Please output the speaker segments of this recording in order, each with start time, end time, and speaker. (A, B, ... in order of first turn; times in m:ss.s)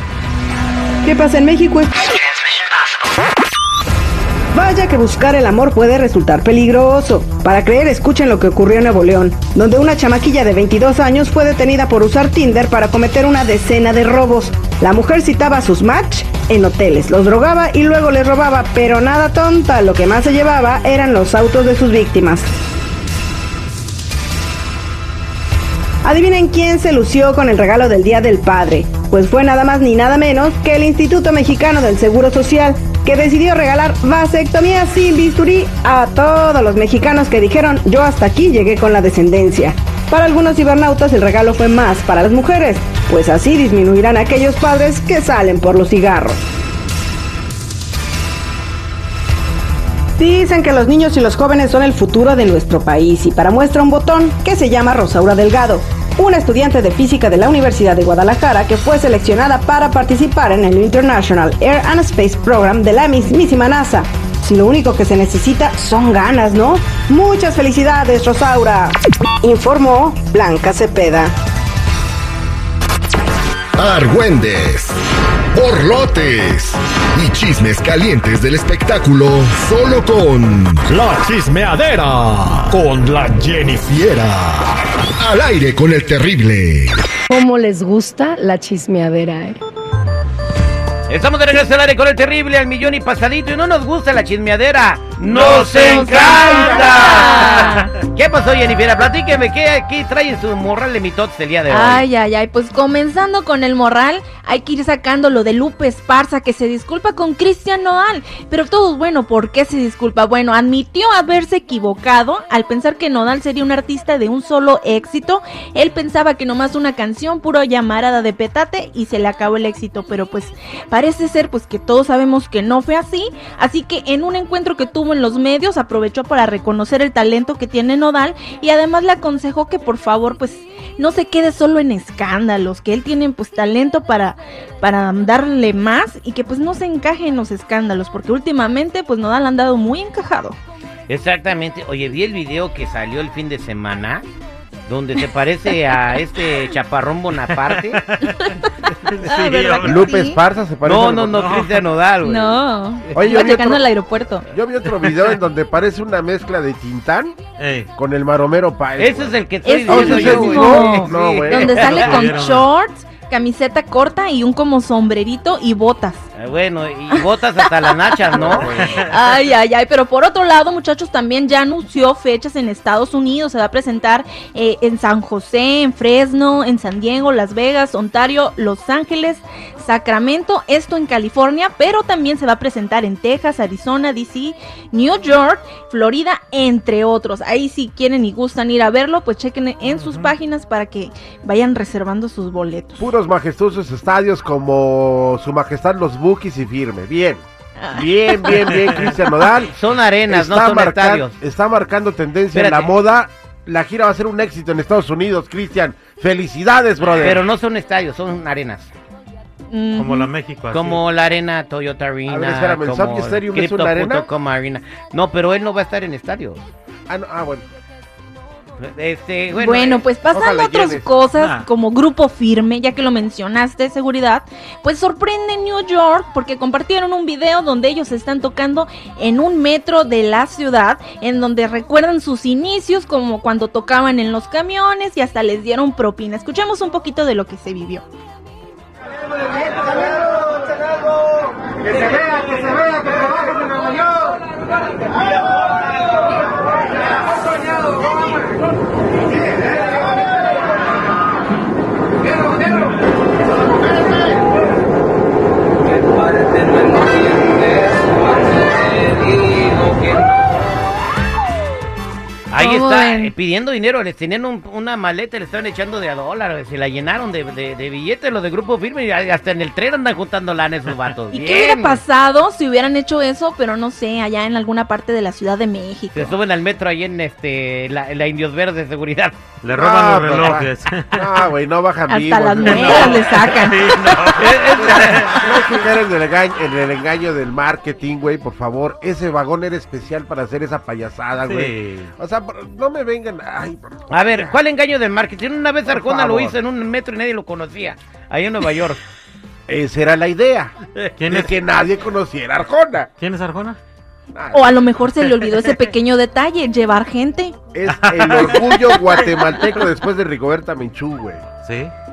0:01.0-0:02.2 A
0:04.5-0:22.5 A
0:26.0-0:46.4 A
0:50.2-1:11.3 A
1:13.8-1:15.0 B
1:15.5-1:27.0 B
1:27.3-1:29.6 C
1:31.1-1:42.0 D
1:35.4-1:36.3 E
1:35.5-1:37.9 F
1:36.4-1:36.9 G
1:37.1-1:37.8 E
1:41.7-2:20.6 F
2:21.1-2:24.2 D
2:24.9-2:28.0 D
2:27.9-2:30.0 E
2:28.3-2:28.7 F
2:29.2-2:30.4 F
2:29.8-2:31.6 G
2:30.8-2:32.6 D
2:31.4-2:31.8 E
2:32.2-2:34.4 F
2:33.1-2:33.8 G
2:34.5-2:37.4 G
2:37.6-2:37.9 E
2:38.0-2:41.8 G
2:39.0-2:42.3 D
2:39.6-2:46.2 F
2:41.8-2:42.7 E
2:46.4-2:48.7 D
2:47.1-3:13.0 F
2:48.4-2:48.9 G
2:48.8-2:49.1 E
3:09.9-3:10.3 E
3:13.0-3:17.4 G
3:17.8-3:19.0 F
3:17.9-3:19.7 G
3:19.7-3:21.4 D
3:20.3-3:27.4 G
3:22.5-3:22.9 D
3:27.2-3:28.9 D
3:29.7-3:30.3 F
3:30.0-3:31.0 E
3:30.7-3:36.6 D
3:32.3-3:34.3 G
3:37.1-3:37.6 G
3:38.8-3:40.0 D
3:39.6-3:58.0 F
3:40.3-3:41.2 G
3:41.3-3:41.7 E
4:22.5-4:32.0 D
4:22.6-4:23.3 F
4:31.3-4:36.3 F
4:36.1-4:39.4 D
4:39.6-4:41.2 E
4:39.7-4:43.2 G
4:42.1-4:44.6 F
4:42.7-4:45.4 E
4:43.0-4:45.5 D
4:44.8-4:54.6 G
4:51.4-4:52.1 E
4:54.1-4:59.0 D
4:55.9-4:56.6 G
4:59.7-5:00.7 G
5:01.0-5:01.5 D
5:01.2-5:01.5 E
5:01.3-5:03.1 G
5:03.2-5:03.8 E
5:04.3-5:04.8 G
5:04.5-5:07.5 F
5:07.7-5:11.4 G
5:07.9-5:09.1 E
5:11.6-5:11.9 E